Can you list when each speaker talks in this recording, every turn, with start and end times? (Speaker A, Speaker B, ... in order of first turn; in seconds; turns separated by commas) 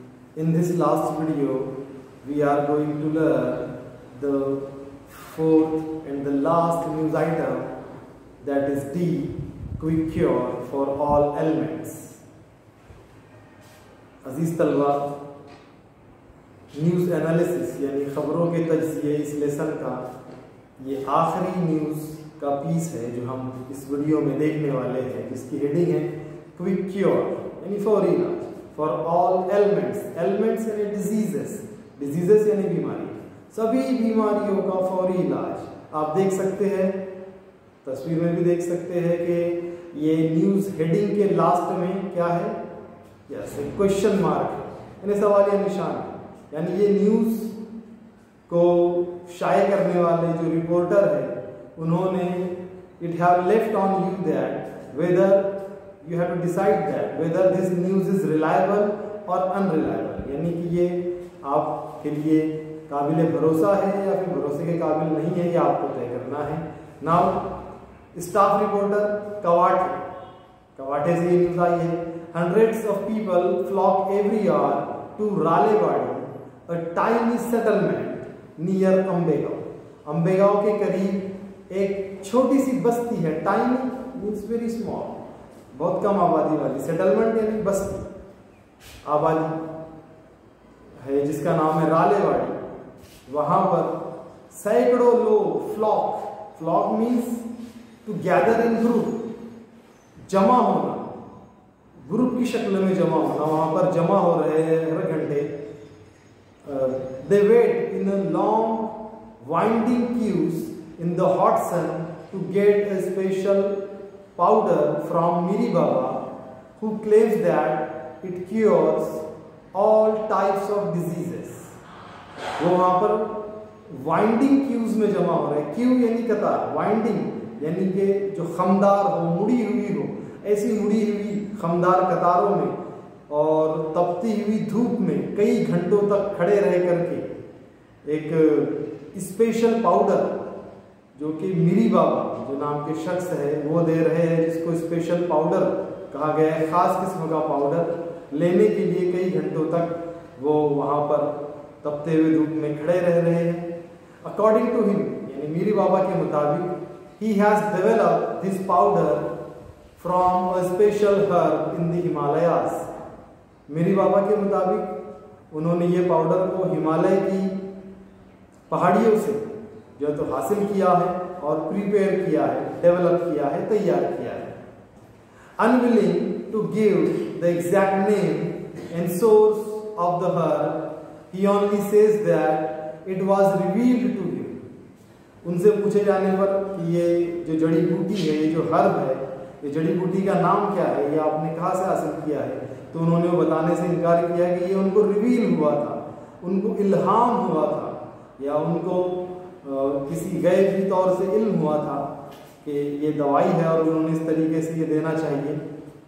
Speaker A: 0.3-7.8, Speaker A: 8.4-12.2, Speaker A: 14.2-15.1, Speaker A: 16.7-20.0, Speaker A: 20.8-37.0, Speaker A: 37.8-42.6, Speaker A: 43.3-47.6, Speaker A: 48.5-67.5, Speaker A: 68.1-70.1, Speaker A: 70.8-85.2, Speaker A: 85.7-88.0, Speaker A: 89.0-89.6, Speaker A: 91.0-92.6, Speaker A: 93.3-97.5, Speaker A: 98.0-99.2, Speaker A: 100.3-101.1, Speaker A: 102.0-105.5, Speaker A: 106.6-113.8, Speaker A: 114.3-116.2, Speaker A: 116.8-121.7, Speaker A: 122.6-132.8, Speaker A: 133.3-137.3, Speaker A: 138.0-140.4, Speaker A: 141.1-153.7, Speaker A: 154.2-159.3, Speaker A: 160.0-162.9, Speaker A: 163.7-164.9, Speaker A: 165.5-167.6, Speaker A: 168.7-174.6, Speaker A: 175.6-184.6, Speaker A: 185.4-202.1, Speaker A: 202.6-205.6